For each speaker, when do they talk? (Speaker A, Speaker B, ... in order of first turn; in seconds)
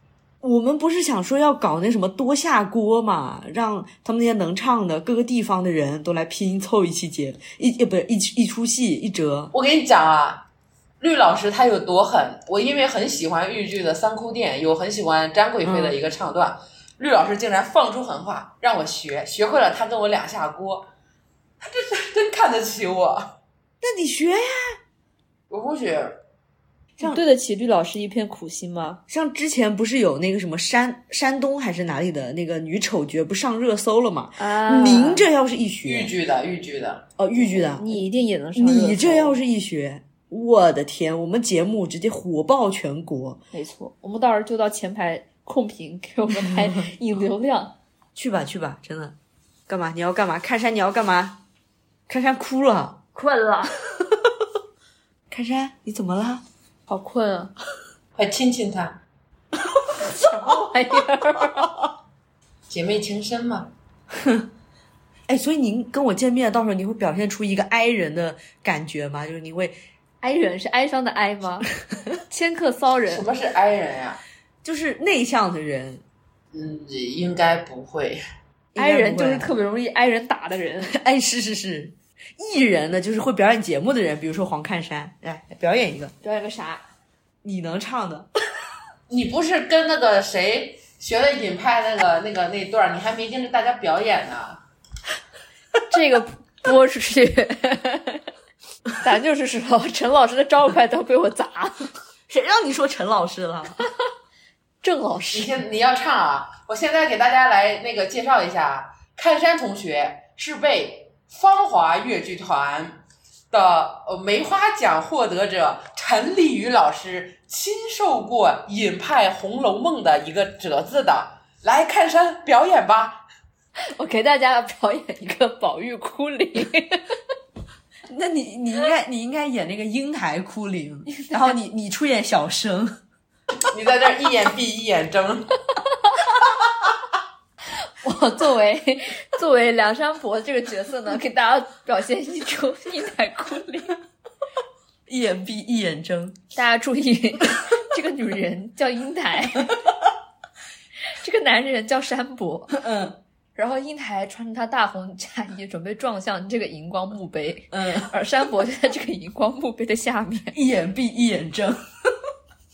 Speaker A: 0.4-9.5, 15.6-16.0, 23.8-24.8, 29.1-36.1, 37.2-38.0, 38.6-43.4, 46.4-46.8, 48.1-49.2, 49.7-51.4, 52.1-53.0, 55.3-56.4, 64.1-64.5, 65.3-69.8, 74.6-76.0, 78.7-79.5, 80.8-86.1, 87.4-88.3, 102.3-103.8, 128.1-133.0, 145.1-146.4, 152.7-153.2, 157.7-158.1, 160.5-162.1
Speaker B: 9.5-10.5, 11.0-20.9, 21.6-23.4, 25.5-26.2, 35.9-37.1, 58.2-59.0, 62.7-63.7, 73.1-74.2, 76.5-78.2, 89.1-94.6, 105.3-123.2, 133.7-135.6
Speaker C: 27.0-29.0, 34.4-35.2, 37.6-39.4, 43.5-47.8, 53.2-53.8, 56.9-57.5, 60.0-61.6, 70.2-71.7, 72.3-73.2, 78.8-80.9, 86.2-86.8, 95.9-98.2, 99.0-101.9, 104.8-105.5, 123.9-127.1, 131.1-131.6, 137.9-144.0, 146.6-149.8, 151.2-152.8, 153.6-160.6